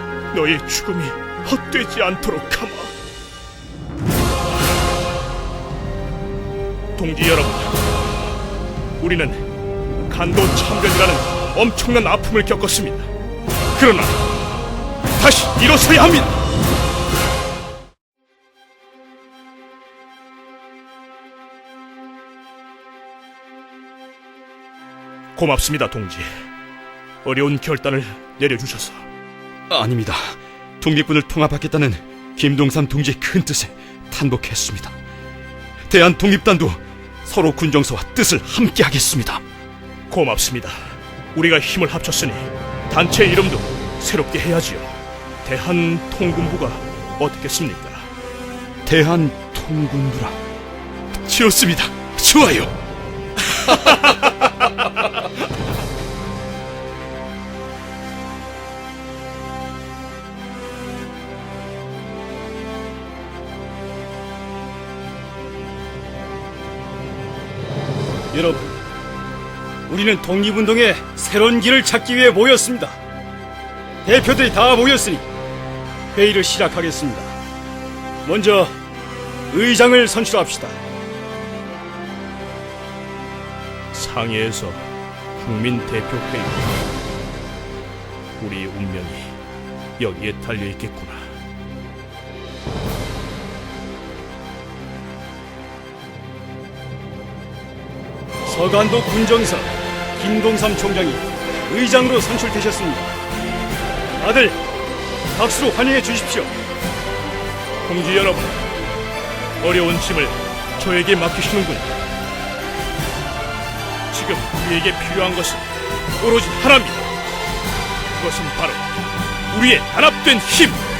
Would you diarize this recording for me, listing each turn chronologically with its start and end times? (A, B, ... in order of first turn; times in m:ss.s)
0:00.3-0:02.9 A
0:07.0-0:07.8 A
0:09.0-0:09.5 A
0:10.1-0:13.1 A
0:13.7-0:14.3 A
0:15.1-0:16.4 A
0:25.3-0:26.3 A
0:27.2-0:29.1 A
0:29.7-0:35.0 B
0:35.9-0:39.4 B
0:40.1-0:48.1 A
0:48.8-0:50.4 B
0:51.1-0:52.7 B
1:08.3-1:08.7 C
1:09.9-1:13.0 C
1:14.0-1:15.2 C
1:16.1-1:17.3 C
1:18.2-1:18.7 C
1:19.5-1:20.8 C
1:23.9-1:26.8 A
1:28.4-1:29.3 A
1:30.0-1:31.4 A
1:38.4-1:43.1 C
1:44.2-1:44.6 C
1:45.3-1:46.5 C
1:47.8-1:48.6 A
1:49.6-1:51.9 A
1:54.1-1:57.2 A
1:58.1-1:58.9 A
1:59.5-2:00.8 A